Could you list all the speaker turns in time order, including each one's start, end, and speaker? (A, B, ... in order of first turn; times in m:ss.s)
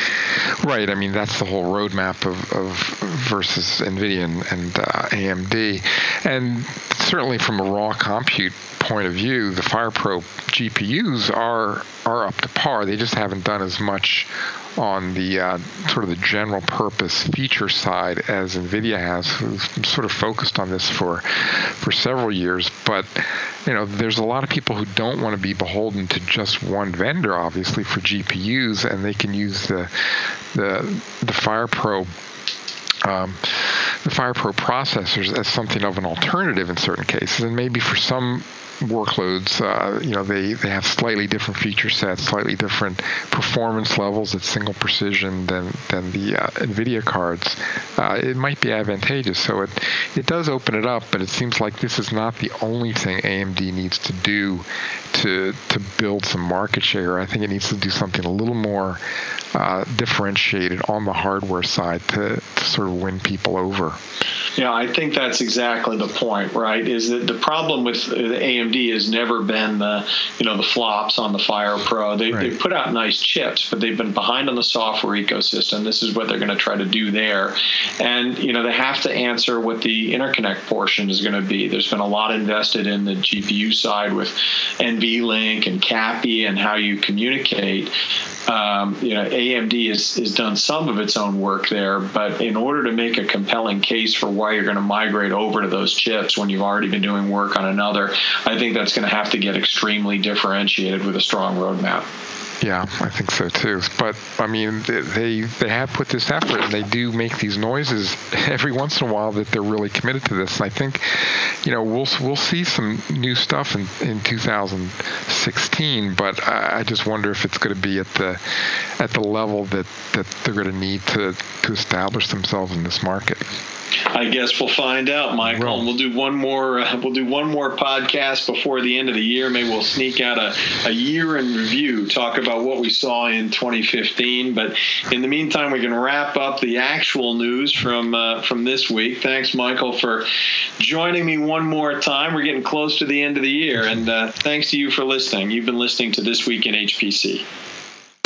0:00.6-0:29.9 A
0:30.5-0:32.1 A
0:33.0-0:59.0 A
0:59.5-1:04.0 A
1:04.6-1:27.9 B
1:28.5-1:42.0 B
1:42.6-1:58.4 A
1:59.0-2:03.4 A
2:04.1-2:20.3 B
2:05.4-2:05.9 A
2:20.8-2:27.4 B